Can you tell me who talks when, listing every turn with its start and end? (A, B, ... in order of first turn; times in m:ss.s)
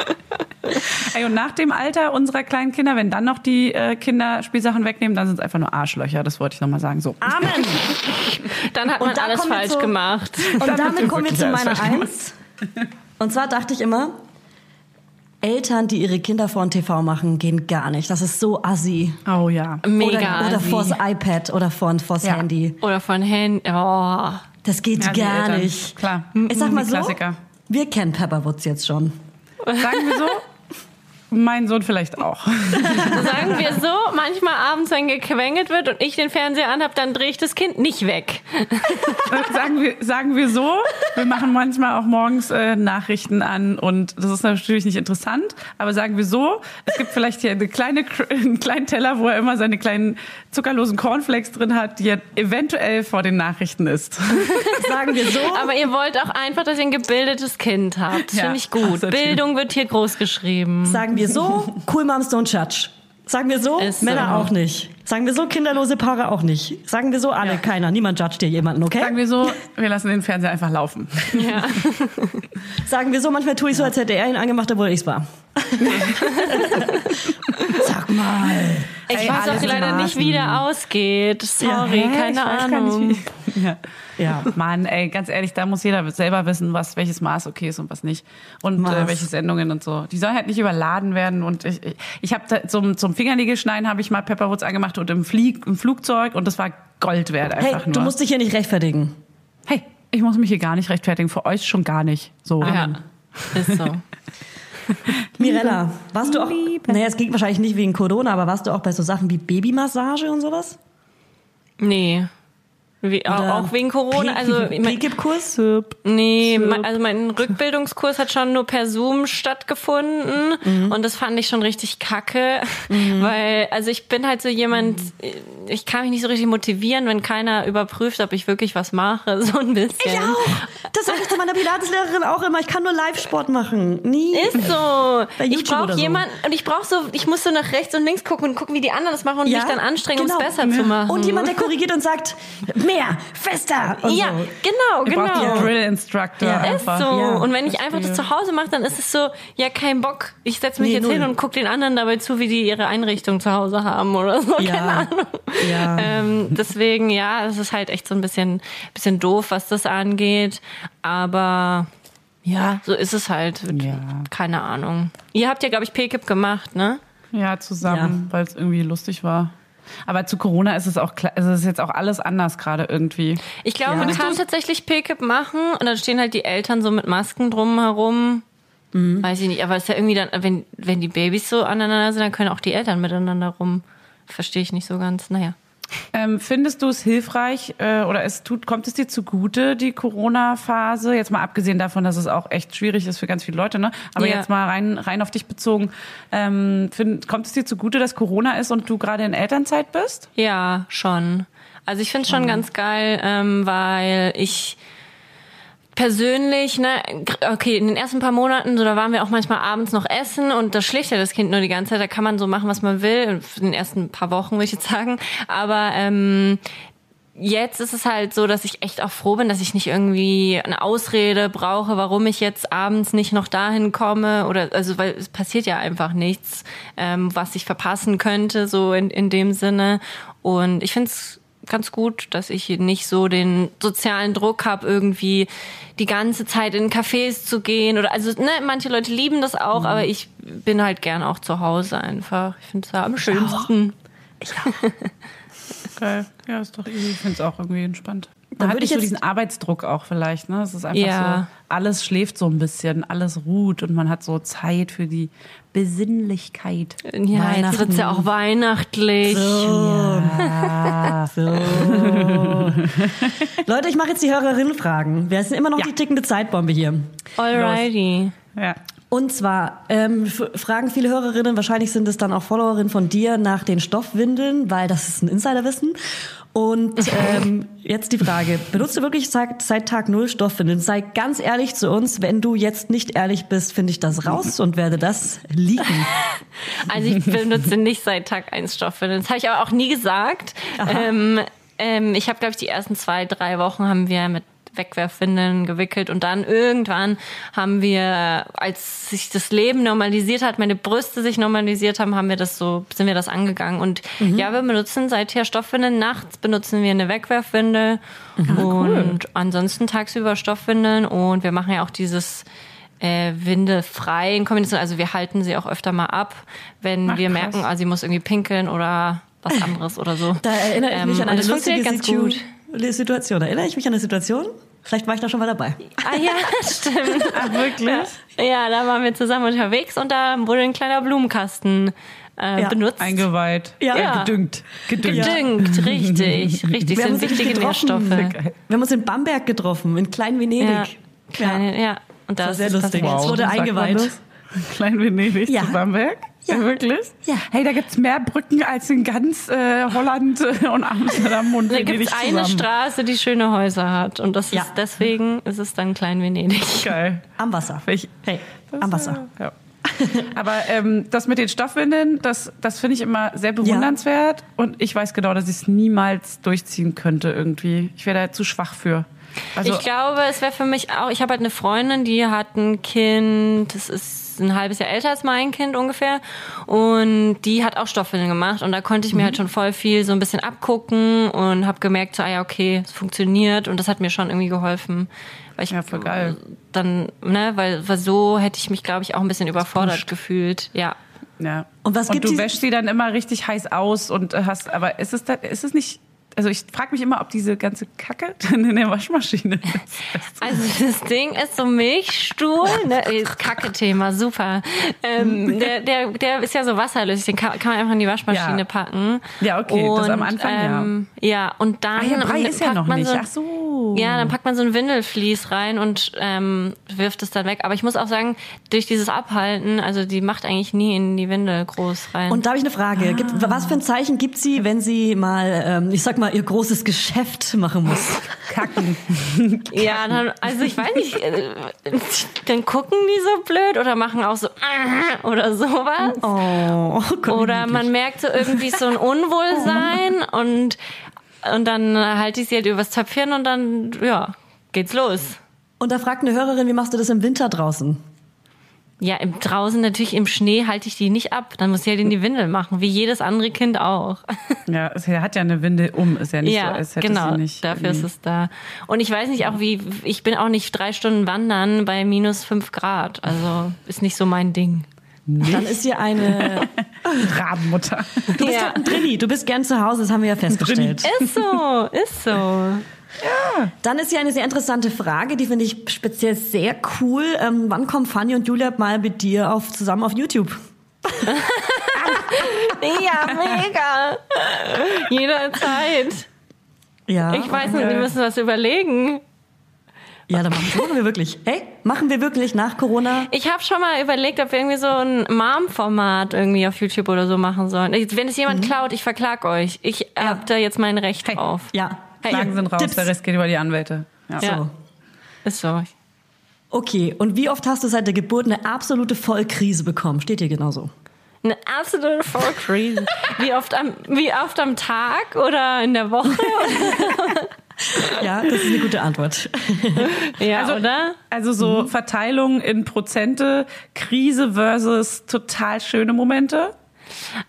0:00.8-0:07.8 A
0:07.2-0:07.9 B
0:08.0-0:10.8 C
0:08.9-0:09.9 B
0:10.5-0:12.4 B
0:10.6-0:12.1 A
0:13.2-0:14.1 B
0:15.4-0:19.2 B
0:19.3-0:19.8 A
0:19.8-0:21.0 C
0:20.0-0:22.8 B
0:20.4-0:20.8 A
0:22.8-0:24.4 C
0:24.6-0:26.0 B
0:25.0-0:27.4 A
0:26.4-0:26.7 C
0:26.5-0:29.2 B
0:29.8-0:30.4 A
0:31.3-0:33.7 A
0:32.8-0:33.3 B
0:32.8-0:39.3 C
0:39.2-0:54.8 A
0:54.5-1:01.0 C
0:54.7-0:55.7 B
0:58.3-0:59.4 A
1:00.8-1:09.2 B
1:03.8-1:04.5 C
1:04.1-1:04.5 A
1:09.0-1:11.7 A
1:11.3-1:12.4 C
1:12.8-1:20.3 B
1:15.8-1:16.2 A
1:16.2-1:16.4 C
1:19.1-1:23.2 C
1:19.1-1:20.6 A
1:21.6-1:21.9 B
1:21.8-1:23.8 A
1:24.2-1:24.5 B
1:24.5-1:38.1 A
1:28.8-1:29.3 B
1:37.6-1:39.2 B
1:39.7-1:42.9 A
1:42.6-1:43.0 B
1:42.6-1:43.0 C
1:43.5-1:44.0 C
1:45.4-1:47.0 A
1:45.4-1:50.8 B
1:51.8-1:52.3 C
1:53.0-1:55.0 C
1:53.3-1:55.6 B
1:55.6-1:56.8 A
1:56.0-2:11.3 C
2:00.6-2:01.0 B
2:02.9-2:03.3 B
2:10.0-2:14.7 B
2:14.3-2:21.7 C
2:15.4-2:16.2 B
2:19.4-2:24.5 B
2:20.6-2:21.0 A
2:24.0-2:25.7 C
2:25.0-2:28.2 A
2:25.3-2:25.7 B
2:26.4-2:27.5 B
2:26.6-2:41.9 C
2:30.8-2:31.3 B
2:34.6-2:36.1 B
2:42.4-2:42.8 A
2:42.8-2:47.0 C
2:43.7-2:44.3 A
2:47.3-2:49.5 A
2:47.8-2:48.2 B
2:50.1-2:54.4 A
2:53.6-2:58.4 C
2:53.8-2:54.2 B
2:58.9-2:59.3 B
2:59.2-3:05.5 C
3:06.1-3:20.3 A
3:14.2-3:14.4 C
3:20.4-3:24.8 C
3:26.0-3:36.6 C
3:37.4-4:03.9 C
3:59.8-4:00.0 B
4:03.2-4:03.6 B
4:04.6-4:05.1 C
4:06.0-4:17.0 A
4:08.5-4:09.2 B
4:10.9-4:11.5 C
4:17.1-4:19.9 C
4:17.3-4:18.3 B
4:19.2-4:20.7 B
4:19.7-4:23.5 A
4:21.2-4:22.9 B
4:23.6-4:27.1 B
4:27.4-4:28.3 C
4:27.5-4:27.9 A
4:29.1-4:36.0 B
4:36.5-4:46.1 B
4:46.8-5:12.4 C
4:50.8-4:51.1 B
5:04.2-5:04.5 B
5:08.4-5:08.7 B
5:08.5-5:09.2 A
5:13.0-5:22.4 C
5:17.1-5:17.6 A
5:20.4-5:25.9 B
5:25.9-5:33.3 C
5:27.2-5:28.2 A
5:33.0-5:37.2 A
5:33.8-5:34.2 B
5:33.9-5:34.3 C
5:35.0-5:38.3 C
5:35.0-5:35.4 B
5:36.9-5:41.6 B
5:38.1-5:38.5 A
5:40.6-5:43.5 C
5:42.4-5:44.2 B
5:43.0-5:52.7 A
5:45.4-5:45.8 B
5:51.7-5:56.9 C
5:56.8-5:57.3 A
5:57.4-5:59.2 B
5:57.8-5:59.5 A
5:59.8-6:00.3 B
6:00.3-6:09.8 A
6:03.6-6:03.9 B
6:09.6-6:31.0 C
6:25.7-6:26.4 A
6:29.8-6:30.0 A
6:31.4-6:40.6 A
6:31.8-6:32.5 B
6:40.4-6:53.2 C
6:48.3-6:48.6 A
6:49.4-6:50.9 A
6:52.0-6:54.3 A
6:53.9-7:02.4 C
7:02.3-7:08.3 B
7:03.0-7:03.8 A
7:08.5-7:10.2 A
7:09.7-7:16.2 C
7:16.2-7:17.8 B
7:17.3-7:20.8 C
7:21.4-7:25.4 C
7:25.8-7:28.0 B
7:29.0-7:34.5 C
7:34.7-7:38.1 A
7:36.4-7:44.9 C
7:45.3-7:48.4 A
7:45.4-7:47.3 B
7:48.3-7:51.1 B
7:48.4-7:48.8 C
7:50.5-7:51.2 A
7:51.0-7:52.8 C
7:53.2-7:53.7 A
7:53.8-8:01.2 B
8:01.2-8:06.3 C
8:07.1-8:08.0 B
8:07.3-8:09.2 C
8:07.7-8:08.1 A
8:10.3-8:13.3 B
8:13.3-8:21.7 C
8:18.5-8:18.7 B
8:21.7-8:23.1 B
8:22.2-8:22.5 C
8:22.3-8:24.5 A
8:24.4-8:24.7 B
8:25.4-8:25.9 C
8:26.7-8:30.9 B
8:31.4-8:38.1 C
8:38.0-8:40.1 B
8:40.0-8:41.2 C
8:40.5-8:46.7 A
8:41.6-8:41.9 B